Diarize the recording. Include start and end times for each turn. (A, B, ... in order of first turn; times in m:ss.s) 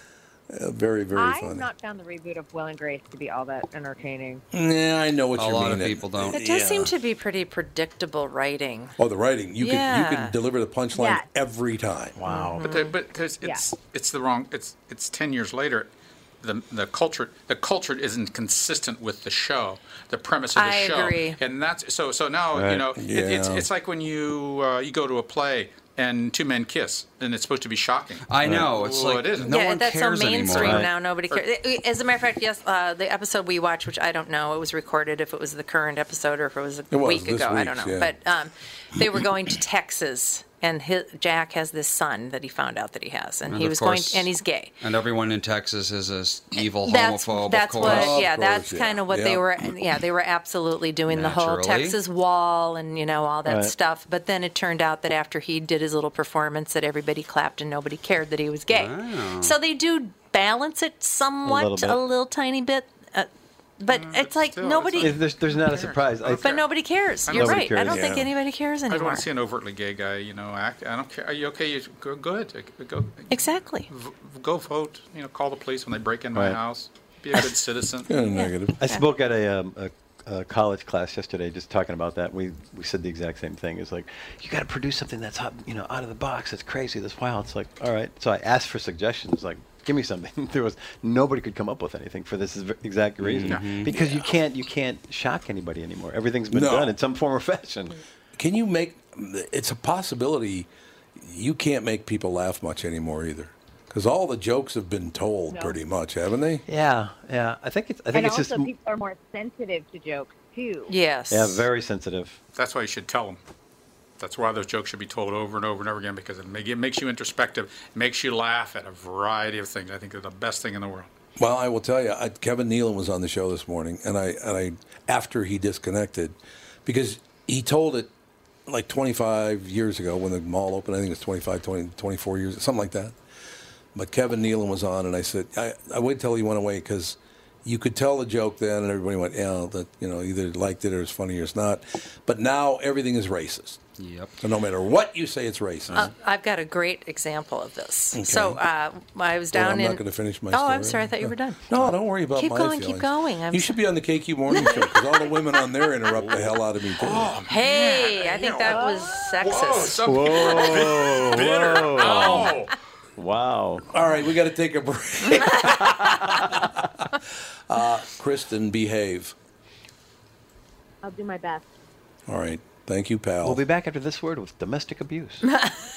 0:00.5-0:01.7 A
0:01.1-0:04.4 B
0:04.5-0:06.9 A
0:05.3-0:06.4 C
0:06.2-0:09.0 D
0:09.0-0:12.2 A
0:09.6-0:10.4 D
0:10.9-0:11.2 B
0:12.2-0:12.6 E
0:12.2-0:12.9 D
0:12.7-0:29.5 F
0:20.6-0:21.4 D
0:22.5-0:22.8 E
0:22.9-0:23.7 A
0:28.3-0:30.8 C
0:28.4-0:28.7 A
0:29.5-0:44.7 D
0:30.5-0:30.9 E
0:36.9-0:38.1 A
0:43.5-0:48.2 C
0:46.8-1:05.2 D
0:47.8-0:49.4 A
0:51.1-0:52.0 C
0:53.4-0:53.7 E
0:58.7-0:59.6 C
1:01.4-1:02.0 E
1:03.9-1:06.6 F
1:05.0-1:06.5 E
1:06.4-1:09.2 D
1:07.3-1:07.9 F
1:07.3-1:08.3 E
1:08.9-1:18.1 F
1:13.3-1:13.9 D
1:16.3-1:16.6 E
1:18.1-1:18.8 A
1:18.2-1:19.0 D
1:18.8-1:38.0 E
1:33.2-1:34.0 C
1:33.4-1:34.3 F
1:36.5-1:37.0 A
1:38.4-1:46.6 A
1:45.5-1:45.8 B
1:46.6-1:48.7 E
1:48.1-1:50.9 B
1:50.9-1:51.7 D
1:51.3-1:52.4 E
1:52.6-1:53.4 F
1:54.2-2:01.1 F
2:01.4-2:08.1 A
2:08.7-2:13.2 A
2:13.9-2:23.8 A
2:24.0-2:24.3 C
2:24.4-2:26.0 A
2:25.9-2:31.7 D
2:28.1-2:28.6 A
2:29.5-2:37.3 A
2:32.3-2:33.8 D
2:37.0-2:42.7 F
2:37.4-2:40.0 D
2:40.0-2:42.6 E
2:43.2-2:43.9 E
2:43.9-2:47.2 A
2:45.3-2:45.6 D
2:47.7-2:49.3 A
2:51.0-2:51.7 B
2:52.3-2:53.6 A
2:53.4-2:55.4 E
2:55.4-2:55.7 D